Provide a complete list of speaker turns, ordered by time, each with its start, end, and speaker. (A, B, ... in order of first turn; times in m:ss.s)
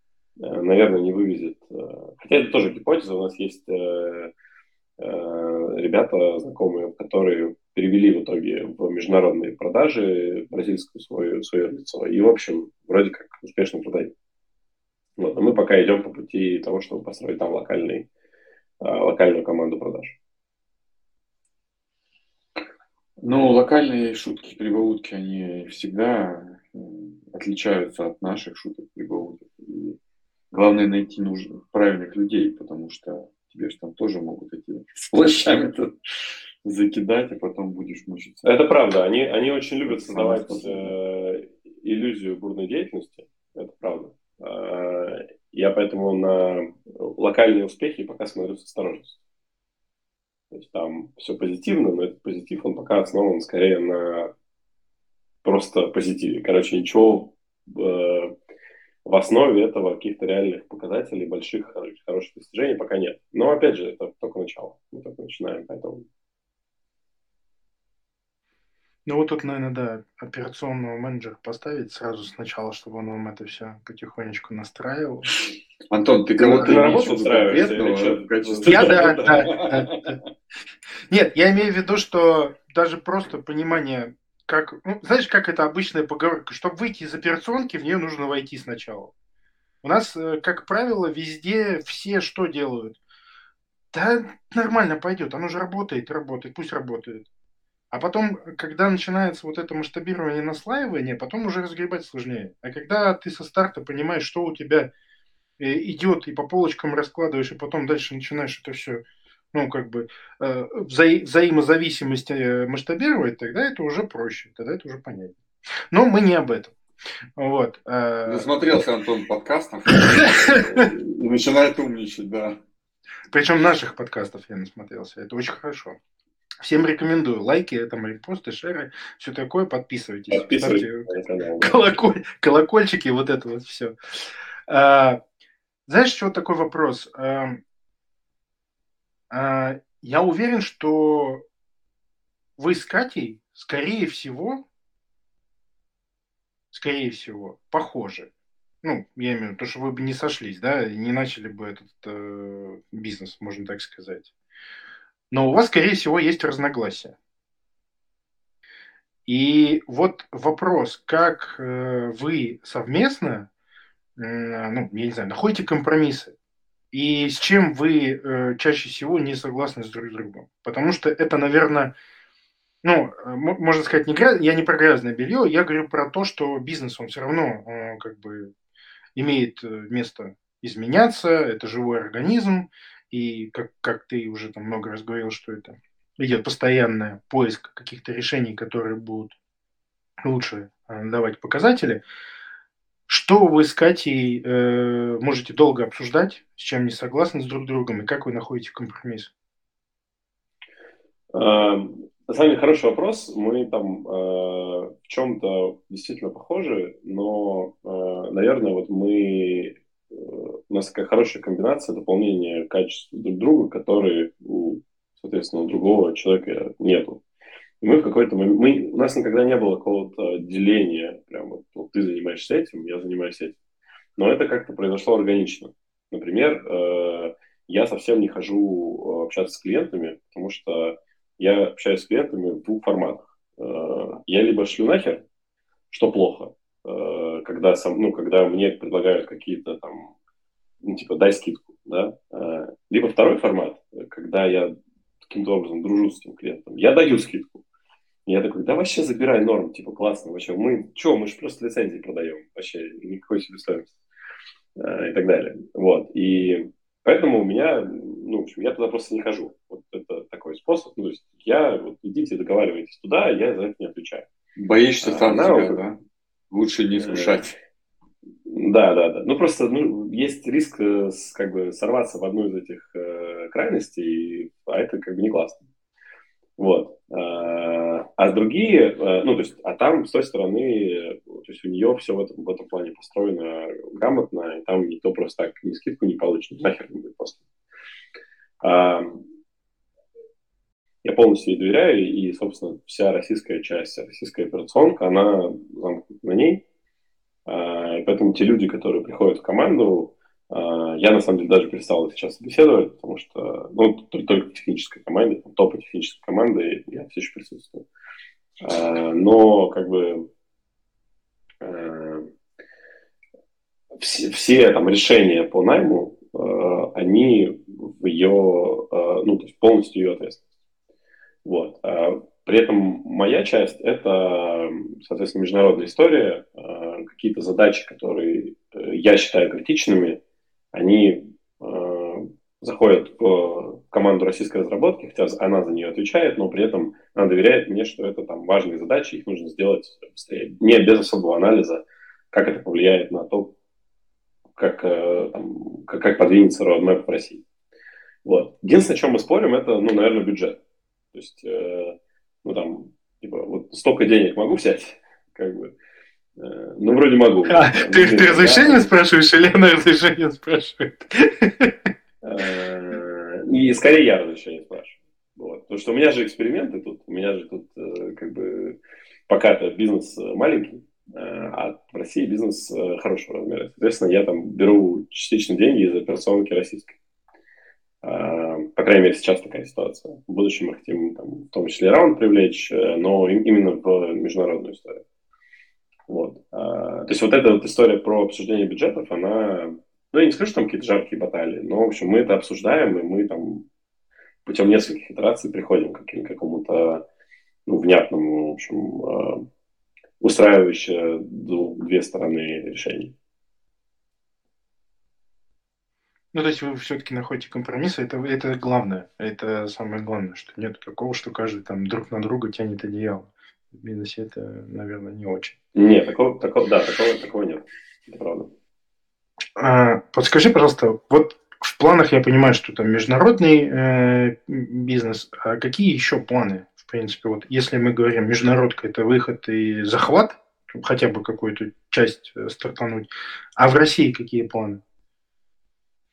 0:00.4-0:04.3 A
0:05.0-0:14.1 A
0:15.2-0:18.0 A
0:18.8-0:20.2 A
0:23.2-0:30.0 B
0:30.5-0:35.9 B
0:36.6-0:38.6 B
0:38.4-0:49.2 A
0:39.9-0:40.9 B
0:50.5-0:54.3 A
0:55.4-0:58.3 A
0:59.0-1:06.0 A
1:09.1-1:15.3 C
1:15.9-1:20.1 B
1:16.4-1:16.8 C
1:16.4-1:19.2 A
1:18.7-1:20.2 C
1:21.1-1:29.1 C
1:29.8-1:33.0 C
1:33.9-1:37.2 C
1:37.9-1:44.9 C
1:45.6-1:49.0 C
1:49.5-1:55.3 C
1:55.9-1:56.7 C
1:57.4-1:58.5 C
1:58.3-2:02.6 B
2:03.3-2:06.0 C
2:06.6-2:11.1 C
2:10.3-2:11.8 A
2:11.6-2:13.9 C
2:14.7-2:15.2 C
2:15.9-2:17.6 C
2:19.3-2:21.4 C
2:22.6-2:24.6 C
2:26.7-2:28.3 C
2:28.8-2:34.3 C
2:35.3-2:37.1 C
2:39.3-2:43.5 C
2:44.2-2:46.3 C
2:46.9-2:51.9 C
2:52.8-2:58.5 C
2:59.2-3:09.3 C
3:10.2-3:12.0 C
3:13.1-3:19.3 C
3:21.3-3:37.2 A
3:37.8-3:43.6 A
3:44.2-3:55.2 A
3:55.9-4:00.1 A
4:00.8-4:07.6 A
4:08.3-4:13.9 A
4:14.8-4:24.2 A
4:24.6-4:26.0 B
4:25.0-4:25.8 A
4:26.5-4:27.6 B
4:27.0-4:27.4 A
4:28.5-4:35.6 A
4:36.6-4:47.4 A
4:48.6-4:49.2 A
4:51.0-4:56.6 A
4:57.5-5:07.8 A
5:08.6-5:10.3 A
5:11.6-5:12.3 A
5:14.0-5:20.4 A
5:21.4-5:30.2 A
5:30.7-5:43.5 A
5:44.6-5:47.4 A
5:48.2-5:50.6 A
5:51.1-5:55.7 A
5:56.4-5:58.9 A
5:57.5-6:01.7 C
6:02.2-6:08.8 A
6:09.3-6:16.9 A
6:18.0-6:25.0 A
6:26.1-6:33.6 A
6:34.5-6:37.0 A
6:37.7-6:39.4 A
6:40.2-6:43.1 A
6:46.3-6:55.5 C
6:55.8-6:58.5 A
6:59.6-7:14.8 C